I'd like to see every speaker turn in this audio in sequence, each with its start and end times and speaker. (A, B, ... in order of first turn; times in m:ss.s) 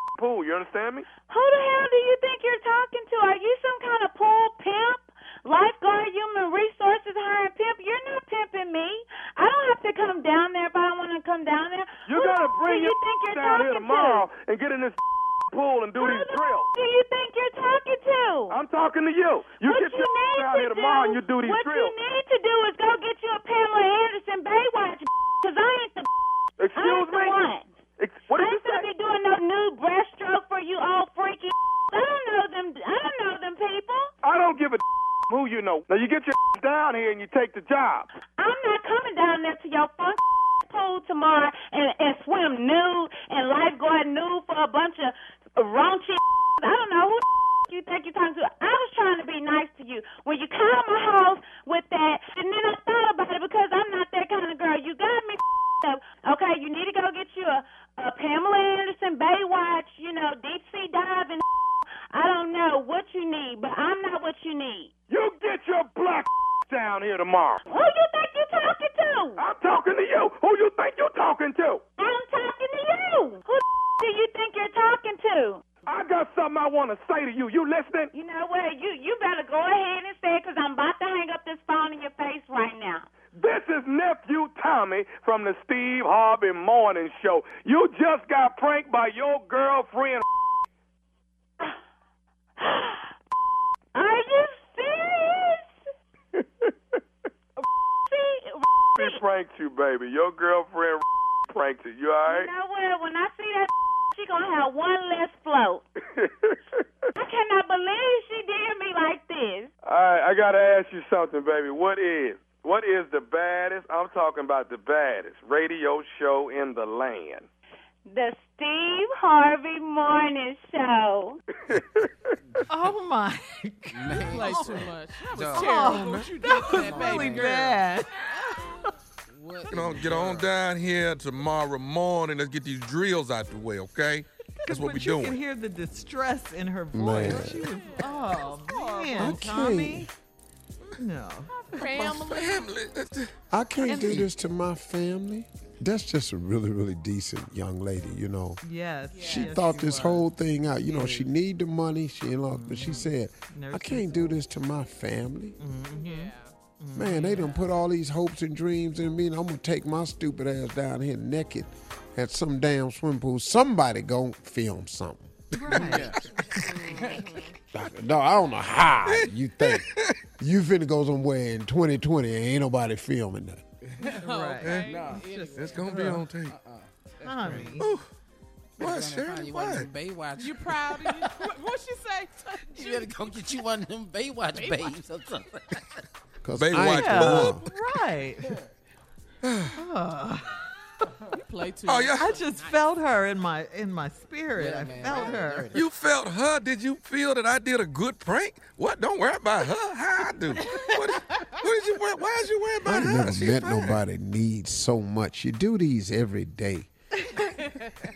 0:00.2-0:01.1 A
0:01.3-0:14.3 B
0:12.0-0:16.7 A
0:16.0-0:18.6 B
0:18.5-0:21.9 A
0:19.6-0:26.1 B
0:26.6-0:27.4 A
0:26.7-0:27.7 B
0:28.0-0:28.9 A
0:28.3-0:34.1 B
0:34.2-0:38.1 A
0:38.4-1:01.4 B
1:02.1-1:04.9 B
1:05.1-1:07.6 A
1:07.6-1:09.4 B
1:09.4-1:11.8 A
1:12.0-1:15.6 B
1:15.8-1:18.1 A
1:18.1-1:23.1 B
1:23.3-1:30.2 A
1:32.6-1:33.1 B
1:33.9-1:35.7 B
1:36.3-1:37.0 A
1:37.6-1:39.2 B
1:39.0-1:42.5 A
1:42.3-1:45.8 B
1:46.1-1:46.8 A
1:47.2-1:49.7 B
1:49.8-1:57.5 A
1:58.1-2:01.4 B
2:01.7-2:02.1 A
2:02.7-2:08.8 C
2:03.9-2:06.0 D
2:04.2-2:07.8 E
2:06.6-2:07.6 D
2:09.3-2:10.5 D
2:09.7-2:15.4 F
2:14.6-2:20.1 C
2:16.9-2:17.7 G
2:17.2-2:19.7 E
2:19.2-2:20.1 G
2:20.9-2:21.8 C
2:21.5-2:22.7 E
2:21.8-2:23.4 F
2:23.5-2:28.6 G
2:23.8-2:24.3 C
2:23.9-2:24.2 F
2:28.6-2:30.2 C
2:29.1-2:30.1 E
2:29.2-2:35.6 G
2:30.9-2:31.2 C
2:32.5-2:34.4 C
2:35.6-2:37.7 C
2:35.9-2:36.6 E
2:36.9-2:46.0 G
2:45.5-2:46.1 C
2:45.7-2:47.5 D
2:46.5-2:47.5 E
2:47.7-2:53.6 G
2:49.1-2:50.2 F
2:53.8-2:54.3 D
2:54.0-2:56.2 C
2:54.1-2:55.9 E
2:54.6-2:55.0 F
2:54.8-2:57.8 D
2:55.5-2:56.6 F
2:57.2-2:57.9 C
2:57.4-2:57.7 E
2:57.8-2:58.1 F
2:58.8-2:59.9 F
2:58.8-3:01.5 D
3:00.4-3:03.4 E
3:02.6-3:06.0 D
3:04.5-3:05.0 E
3:06.4-3:07.7 G
3:06.5-3:07.6 F
3:06.8-3:08.6 C
3:09.4-3:09.8 F
3:09.7-3:10.6 C
3:11.3-3:12.8 E
3:11.8-3:12.4 F
3:12.2-3:15.7 C
3:14.5-3:15.9 D
3:15.7-3:24.0 F
3:22.8-3:26.9 G
3:27.3-3:27.6 C